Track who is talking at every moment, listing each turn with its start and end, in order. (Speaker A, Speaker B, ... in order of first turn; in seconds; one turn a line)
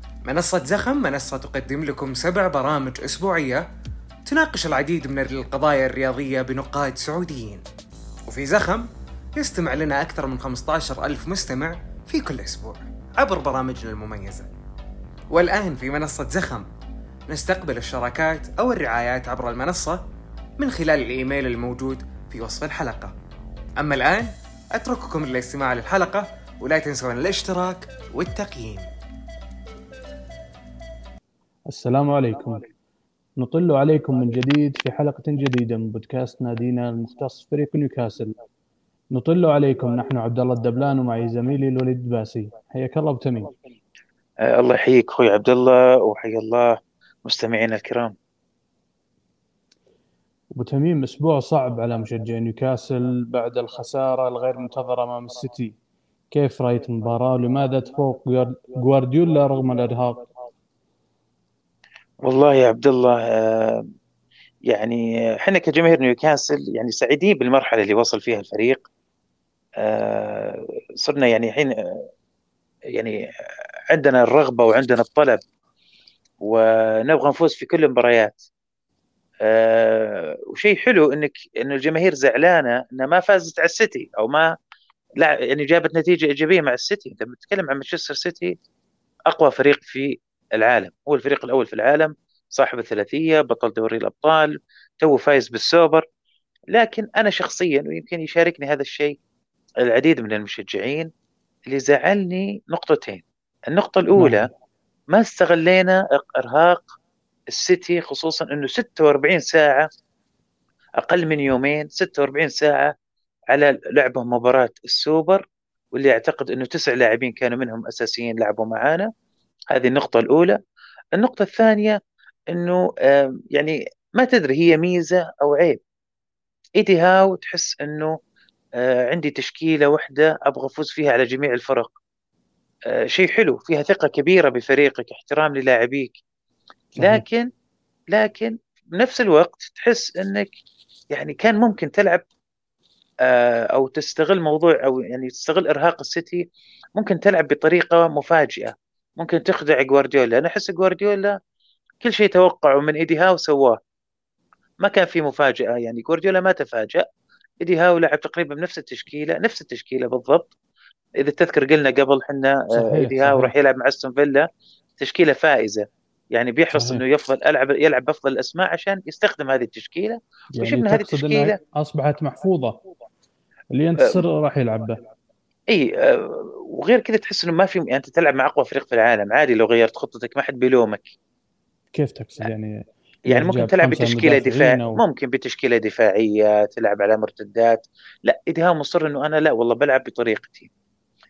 Speaker A: 0.2-3.6
Speaker A: 4.2-7.6
Speaker A: 8.3-14.5
Speaker A: 15.3-16.7
Speaker A: 17.3-20.0
Speaker A: 20.6-23.1
Speaker A: 23.8-28.9
Speaker B: 31.7-32.6
Speaker B: 33.4-38.3
Speaker B: 39.1-43.5
Speaker C: 44.4-48.1
Speaker B: 50.5-55.8
Speaker B: 56.3-60.3
Speaker C: 62.2-63.9
Speaker C: 64.7-68.8
Speaker C: 69.8-72.1
Speaker C: 72.9-73.2
Speaker C: 73.9-75.4
Speaker C: 76.4-78.4
Speaker C: 79.4-84.5
Speaker C: 85.2-88.6
Speaker C: 89.3-96.0
Speaker C: 96.7-99.2
Speaker C: 99.8-101.1
Speaker C: 101.7-104.5
Speaker B: 104.2-104.5
Speaker C: 105.1-106.8
Speaker C: 107.5-109.9
Speaker C: 111.0-112.9
Speaker C: 113.5-119.1
Speaker C: 119.7-120.6
Speaker C: 121.1-122.0
Speaker C: 122.5-125.8
Speaker C: 126.8-128.2
Speaker C: 128.8-131.9
Speaker C: 132.9-136.2
Speaker B: 137.0-137.2
Speaker C: 137.0-137.5
Speaker C: 138.1-140.5
Speaker C: 141.1-142.2
Speaker C: 143.2-146.4
Speaker C: 147.0-151.4
Speaker C: 152.0-153.8
Speaker C: 154.8-157.1
Speaker C: 157.6-160.5
Speaker C: 161.2-164.5
Speaker B: 162.7-163.5
Speaker C: 165.0-171.6
Speaker B: 166.7-167.0
Speaker B: 170.5-172.8
Speaker B: 173.7-175.0
Speaker C: 174.0-174.2
Speaker C: 175.7-181.1
Speaker B: 181.9-185.0
Speaker C: 183.3-190.7